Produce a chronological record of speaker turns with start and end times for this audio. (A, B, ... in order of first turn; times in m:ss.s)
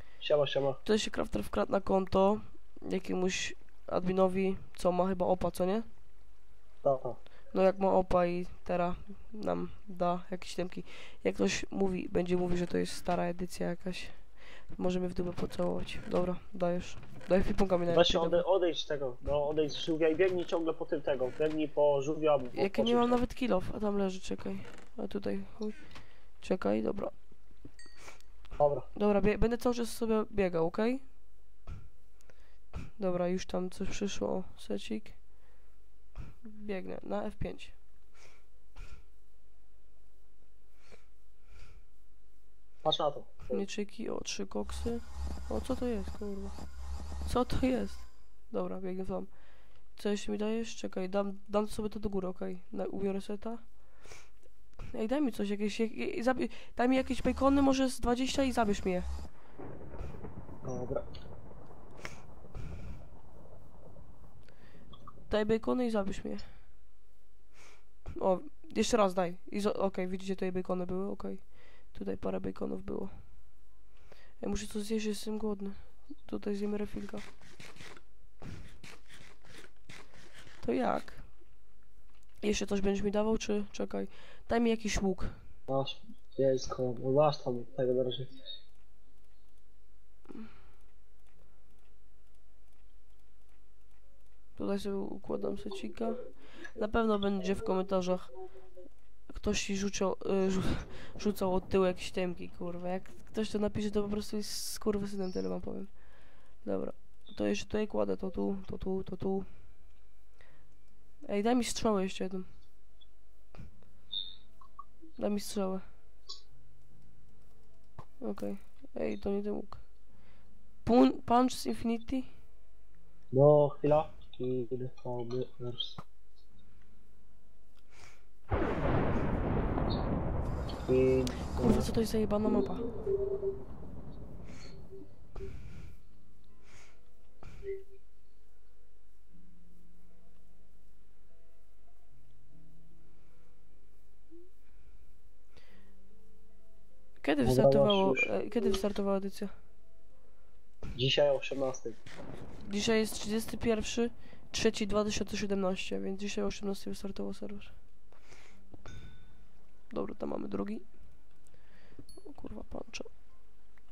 0:00.2-0:00.8 A
0:00.8-0:05.9 B
0:06.8-0:07.2 A
0:07.5-0:18.4 B
0:17.9-0:23.2 A
0:22.5-0:27.2 B
0:28.6-0:28.9 A
0:29.0-0:31.1 B
0:33.0-0:35.2 B
0:36.4-0:37.8 B
0:42.8-0:43.7 A
0:43.5-0:46.6 B
0:47.2-0:53.8 B
0:54.9-0:59.1 B
1:00.6-1:01.0 A
1:05.3-1:06.4 B
1:08.2-1:13.3 B
1:14.4-1:17.2 B
1:20.6-1:21.4 B
1:22.4-1:25.4 B
1:25.7-1:28.3 A
1:34.6-1:38.3 B
1:39.3-1:49.5 B
1:51.2-1:52.5 B
1:55.2-1:55.8 B
1:58.2-1:59.8 B
2:00.8-2:02.3 B
2:03.3-2:06.0 A
2:10.8-2:11.9 A
2:11.6-2:12.8 B
2:27.2-2:29.5 B
2:27.4-2:28.3 A
2:31.0-2:32.0 A
2:32.6-2:37.8 B
2:39.9-2:41.0 B
2:42.2-2:43.1 B